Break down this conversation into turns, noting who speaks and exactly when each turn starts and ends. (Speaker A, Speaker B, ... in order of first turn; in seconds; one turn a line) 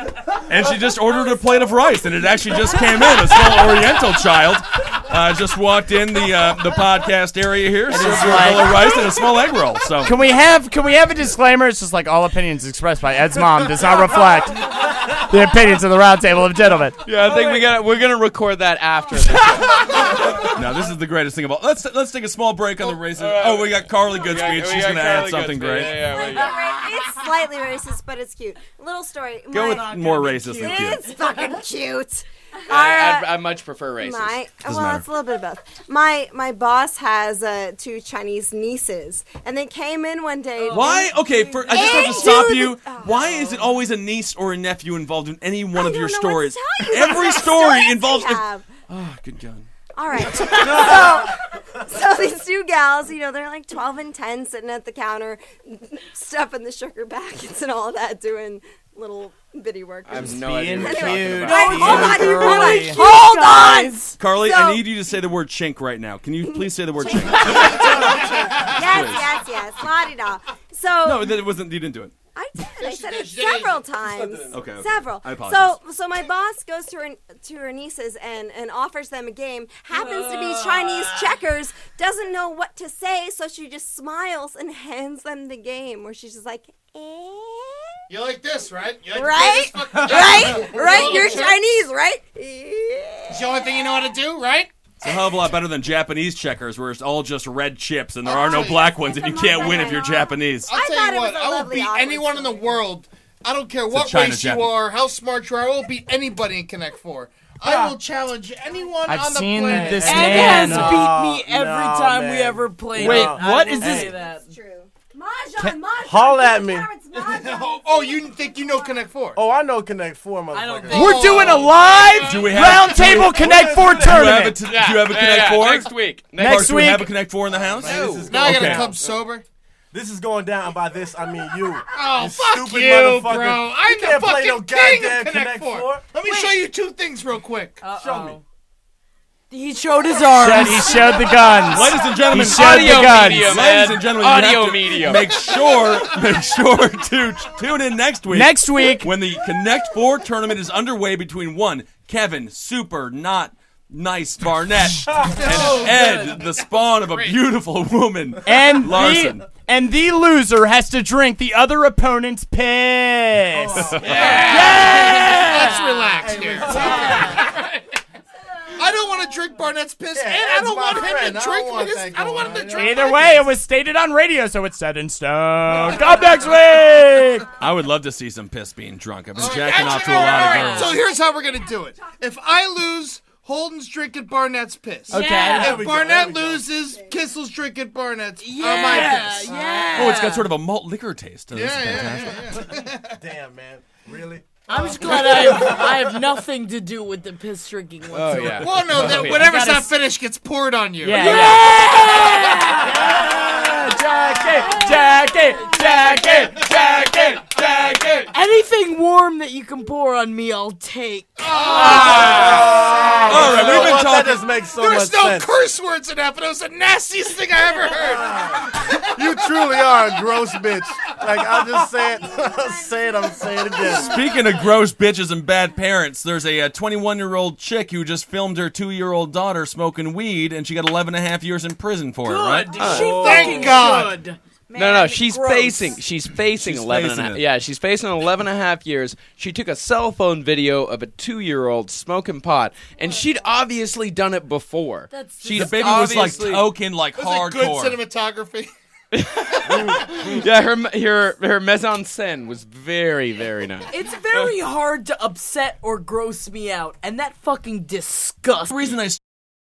Speaker A: 0.5-10.2
Speaker B: 3.2-3.5
Speaker C: 7.9-8.9
Speaker C: 10.0-17.0
Speaker D: 17.0-20.5
Speaker A: 20.0-26.1
Speaker D: 22.8-26.6
Speaker E: 26.1-33.4
Speaker F: 26.1-26.5
Speaker A: 29.5-31.0
Speaker D: 32.7-34.4
Speaker E: 34.0-41.1
Speaker A: 34.6-35.0
Speaker F: 40.6-42.4
Speaker A: 40.7-49.7
Speaker E: 41.6-43.6
Speaker E: 45.7-48.7
Speaker E: 49.9-65.0
Speaker A: 50.4-51.2
Speaker D: 60.0-62.3
Speaker C: 60.2-63.0
Speaker F: 61.5-64.0
Speaker A: 64.2-69.3
Speaker E: 66.4-71.5
Speaker G: 67.5-69.2
Speaker A: 71.0-72.1
Speaker E: 72.3-87.9
Speaker G: 72.8-74.4
Speaker H: 74.0-74.5
Speaker A: 74.5-75.8
Speaker F: 79.9-80.9
Speaker G: 88.1-91.6
Speaker E: 89.1-94.1
Speaker H: 90.1-91.3
Speaker G: 93.3-94.7
Speaker A: 95.0-100.7
Speaker G: 98.2-98.9
Speaker E: 98.3-102.8
Speaker G: 100.7-110.8
Speaker A: 103.9-104.8
Speaker C: 109.0-111.0
Speaker H: 109.7-114.1
Speaker F: 110.0-114.5
Speaker C: 113.0-114.1
Speaker E: 113.8-114.9
Speaker B: 115.1-118.3
Speaker H: 116.0-116.9
Speaker G: 117.1-119.4
Speaker H: 119.3-121.2
Speaker F: 120.5-122.5
Speaker G: 120.9-122.4
Speaker C: 120.9-124.6
Speaker A: 122.1-128.9
Speaker H: 122.9-124.4
Speaker D: 124.6-126.8
Speaker C: 126.4-127.1
Speaker H: 127.5-129.0
Speaker D: 127.8-128.5
Speaker G: 128.3-129.4
Speaker H: 129.9-136.0
Speaker G: 131.9-137.8
Speaker F: 136.2-136.6
Speaker F: 137.8-138.4
Speaker H: 138.0-138.4
Speaker F: 139.5-142.2
Speaker C: 140.3-143.6
Speaker A: 141.6-159.4
Speaker D: 142.3-145.4
Speaker G: 145.4-146.3
Speaker C: 148.3-149.1
Speaker G: 155.3-157.4
Speaker C: 158.4-166.1
Speaker H: 163.5-164.8
Speaker G: 164.0-167.9
Speaker F: 164.0-166.0
Speaker H: 166.2-167.4
Speaker F: 166.6-167.4
Speaker C: 166.7-167.1
Speaker G: 168.7-173.4
Speaker H: 170.1-173.3
Speaker C: 172.7-177.5
Speaker A: 177.6-180.9
Speaker G: 179.3-190.0
Speaker F: 179.5-180.9
Speaker B: 180.7-182.6
Speaker F: 185.1-185.9
Speaker C: 185.1-185.8
Speaker H: 185.5-186.7
Speaker F: 188.4-190.5
Speaker A: 189.9-192.6
Speaker G: 191.5-193.2
Speaker H: 193.1-196.1
Speaker F: 194.7-198.9
Speaker D: 198.1-199.5
Speaker G: 198.6-201.6
Speaker C: 199.2-199.9
Speaker C: 201.0-201.8
Speaker F: 201.1-203.5
Speaker C: 202.8-207.5
Speaker B: 204.6-206.0
Speaker F: 204.6-205.0
Speaker G: 206.3-208.3
Speaker F: 208.3-212.9
Speaker G: 211.4-220.0
Speaker H: 211.8-215.5
Speaker A: 213.2-214.4
Speaker H: 217.9-224.2
Speaker B: 222.1-223.8
Speaker A: 223.8-233.1
Speaker F: 232.2-236.0
Speaker D: 232.7-233.7
Speaker G: 233.0-234.2
Speaker D: 234.7-246.7
Speaker A: 236.5-237.4
Speaker F: 245.1-246.5
Speaker A: 245.5-248.0
Speaker G: 247.1-248.7
Speaker D: 249.1-254.5
Speaker H: 249.7-250.1
Speaker F: 253.9-258.9
Speaker A: 258.7-259.2